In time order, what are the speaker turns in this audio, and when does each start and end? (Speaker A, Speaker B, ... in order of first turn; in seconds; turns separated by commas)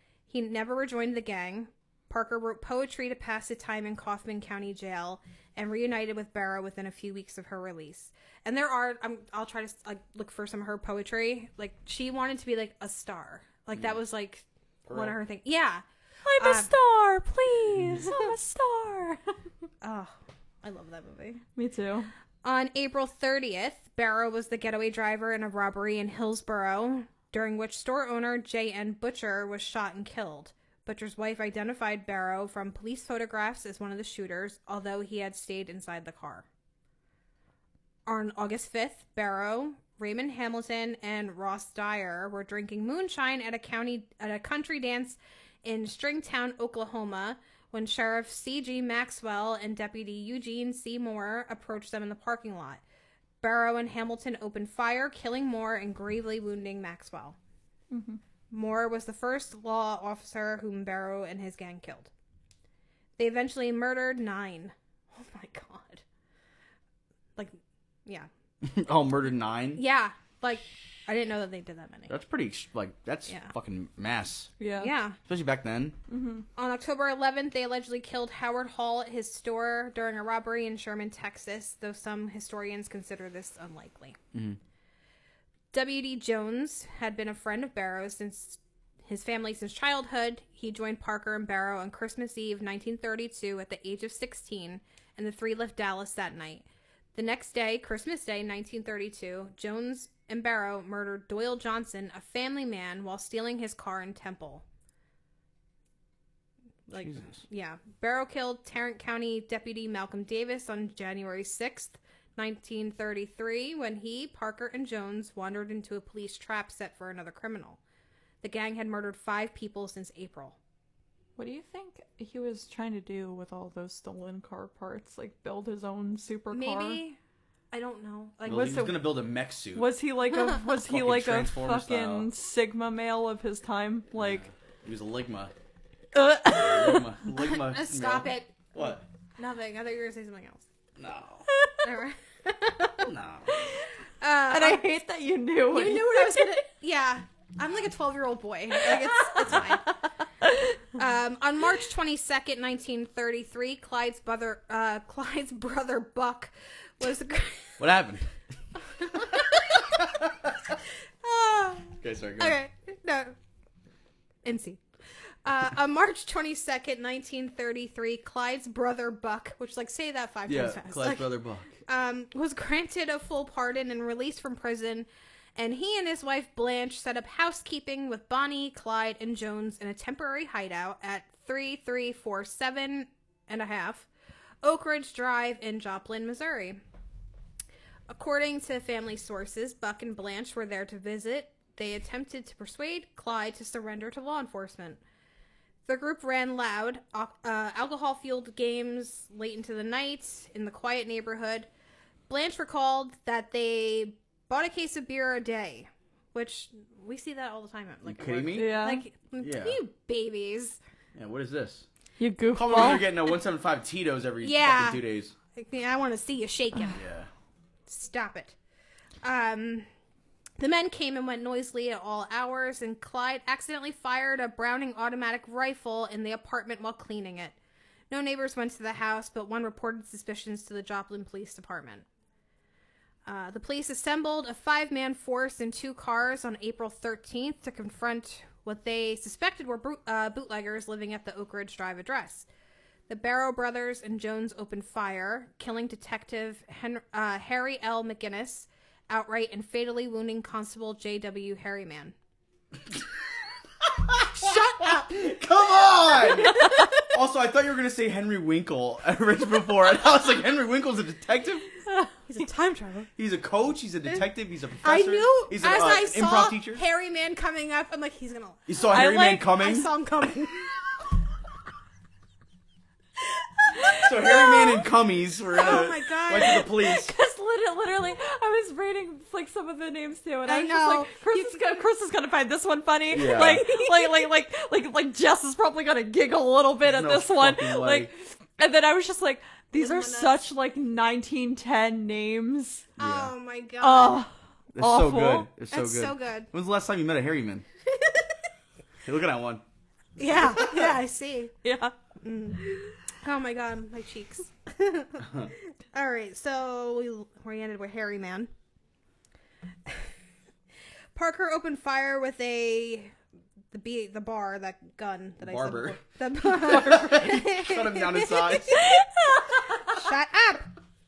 Speaker A: 0.3-15.8, Speaker B: 14.8-15.2, Speaker C: 16.2-19.2, Speaker A: 16.4-16.7, Speaker A: 18.0-18.3, Speaker A: 19.8-21.4, Speaker C: 21.6-22.1, Speaker A: 22.4-36.5, Speaker A: 38.0-52.8, Speaker A: 53.4-57.4, Speaker C: 57.9-58.2, Speaker A: 58.5-62.1, Speaker A: 63.2-66.0, Speaker A: 67.4-68.3, Speaker B: 68.6-69.8, Speaker A: 69.8-72.1, Speaker B: 72.1-74.5, Speaker A: 73.3-73.5, Speaker C: 74.6-74.9, Speaker A: 74.8-75.2, Speaker B: 75.2-76.0, Speaker C: 76.1-76.4, Speaker A: 76.5-84.2, Speaker B: 84.3-84.6, Speaker A: 85.7-104.6, Speaker A: 106.9-117.8, Speaker B: 106.9-107.4, Speaker A: 118.4-120.6, Speaker C: 121.4-127.0, Speaker A: 126.5-127.2, Speaker A: 127.7-128.9, Speaker B: 128.4-129.9, Speaker C: 128.5-128.9, Speaker C: 129.7-134.4, Speaker B: 130.8-132.3, Speaker B: 134.1-135.5, Speaker C: 136.1-137.1, Speaker B: 136.4-139.0, Speaker A: 137.3-138.7, Speaker A: 139.4-140.6, Speaker B: 141.0-141.5, Speaker A: 141.8-143.1, Speaker B: 143.0-143.6, Speaker C: 143.5-143.9, Speaker A: 144.2-144.8, Speaker C: 144.5-146.6, Speaker A: 145.7-149.9, Speaker C: 148.8-149.6, Speaker A: 150.9-157.8, Speaker B: 157.8-158.3, Speaker A: 158.9-159.9, Speaker B: 159.1-160.5, Speaker A: 161.2-163.3, Speaker B: 162.0-162.6, Speaker A: 164.4-164.8, Speaker A: 165.4-171.3, Speaker B: 170.5-171.8, Speaker A: 171.8-184.1, Speaker A: 184.6-186.8, Speaker A: 188.1-195.0, Speaker A: 195.8-201.7, Speaker A: 202.3-210.8, Speaker B: 208.0-208.8, Speaker C: 208.5-209.0, Speaker B: 209.4-209.8, Speaker B: 211.1-211.9, Speaker C: 212.2-213.2, Speaker B: 212.5-215.3, Speaker A: 214.4-215.0, Speaker A: 215.5-217.0, Speaker B: 216.9-217.3, Speaker A: 217.9-218.6, Speaker A: 219.2-219.9, Speaker A: 220.6-227.6, Speaker A: 228.1-232.1, Speaker A: 233.2-242.5, Speaker A: 243.1-252.1, Speaker B: 253.8-261.7, Speaker A: 254.2-255.4, Speaker A: 256.2-256.9, Speaker A: 262.3-263.1, Speaker B: 263.2-266.8, Speaker A: 264.8-270.7, Speaker B: 268.7-269.9, Speaker C: 268.9-269.6, Speaker A: 273.9-274.8, Speaker B: 273.9-277.1, Speaker A: 275.5-276.7, Speaker C: 276.6-292.9, Speaker A: 280.4-281.8, Speaker B: 283.1-283.7, Speaker A: 283.8-284.1, Speaker B: 286.8-288.1, Speaker A: 289.7-290.4, Speaker B: 293.0-293.3, Speaker A: 293.0-294.3, Speaker C: 293.8-295.5, Speaker B: 294.8-297.6, Speaker A: 295.7-296.5, Speaker B: 299.0-299.6, Speaker A: 300.2-301.5, Speaker B: 300.3-300.9, Speaker C: 301.6-301.9, Speaker A: 302.2-308.5, Speaker A: 311.1-313.1, Speaker A: 313.7-319.0, Speaker B: 315.4-318.8, Speaker C: 318.8-319.9, Speaker A: 319.8-320.7